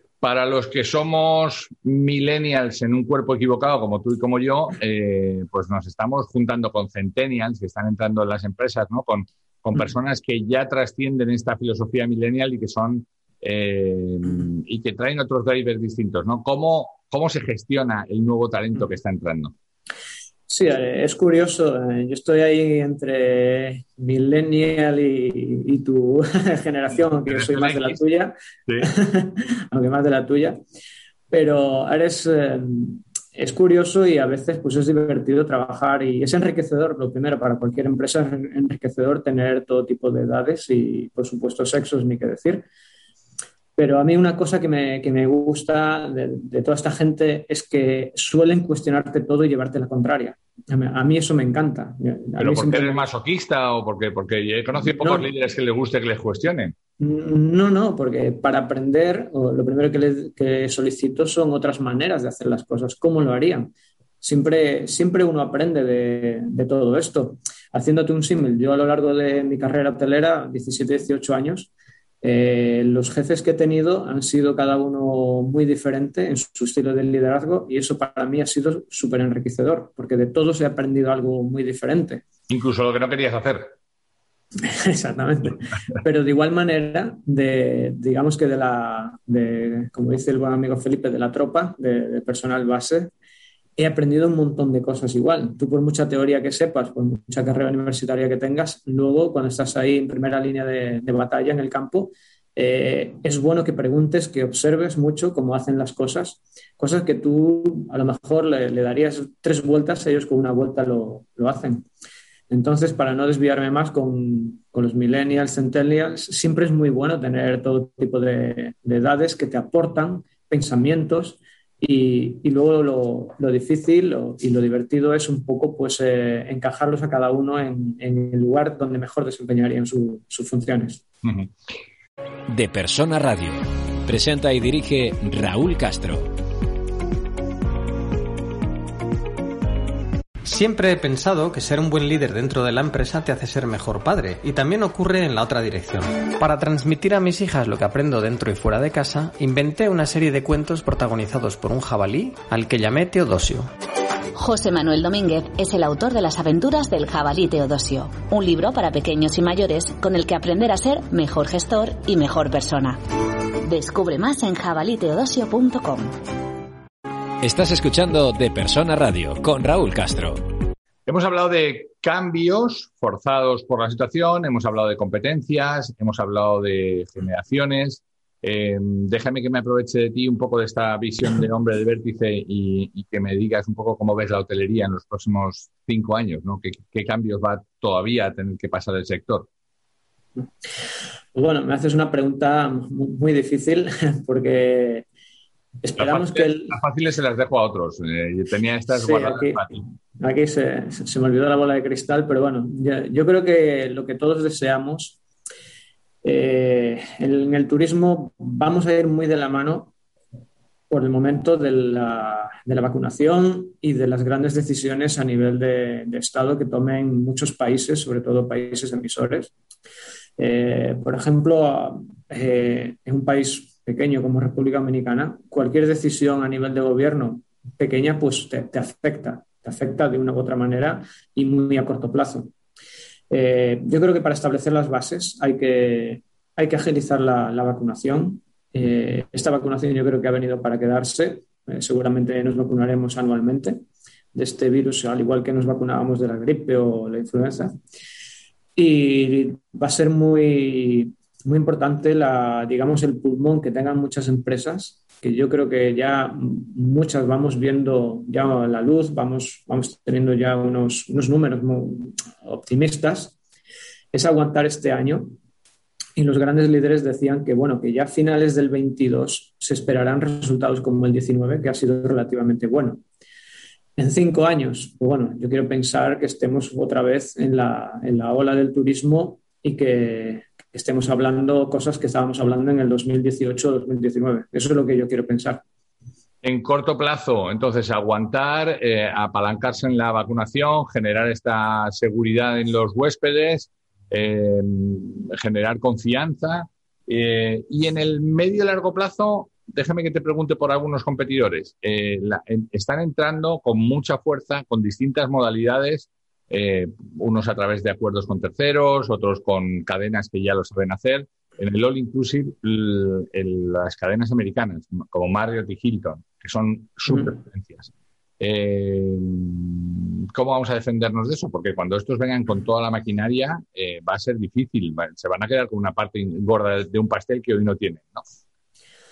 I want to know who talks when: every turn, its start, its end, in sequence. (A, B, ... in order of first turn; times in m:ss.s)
0:00.2-0:19.5 A
0:20.5-0:30.6 B
0:27.3-0:28.0 A
0:31.3-0:42.6 B
0:43.8-0:53.1 B
0:52.4-0:56.7 A
0:54.8-0:55.3 B
0:57.0-1:03.7 B
1:04.2-1:11.7 B
1:12.2-1:22.2 B
1:22.5-1:23.7 A
1:24.6-1:33.1 B
1:33.8-1:51.9 B
1:52.5-2:11.0 B
2:11.2-2:11.5 A
2:12.5-2:16.3 C
2:20.4-2:33.7 D
2:34.4-2:43.0 E
2:43.6-2:46.1 E
2:47.4-2:50.4 C
2:51.1-3:09.5 A
3:11.4-3:15.1 B
3:15.8-3:16.8 B
3:16.0-3:19.8 A
3:18.9-3:19.6 B
3:20.2-3:25.2 B
3:26.2-3:29.9 B
3:30.9-3:39.5 B
3:40.4-3:52.5 B
3:53.3-4:07.8 B
4:08.8-4:23.4 B
4:24.1-4:25.4 B
4:26.2-4:33.0 B
4:34.0-4:45.6 B
4:46.4-5:17.9 A
5:18.4-5:28.2 A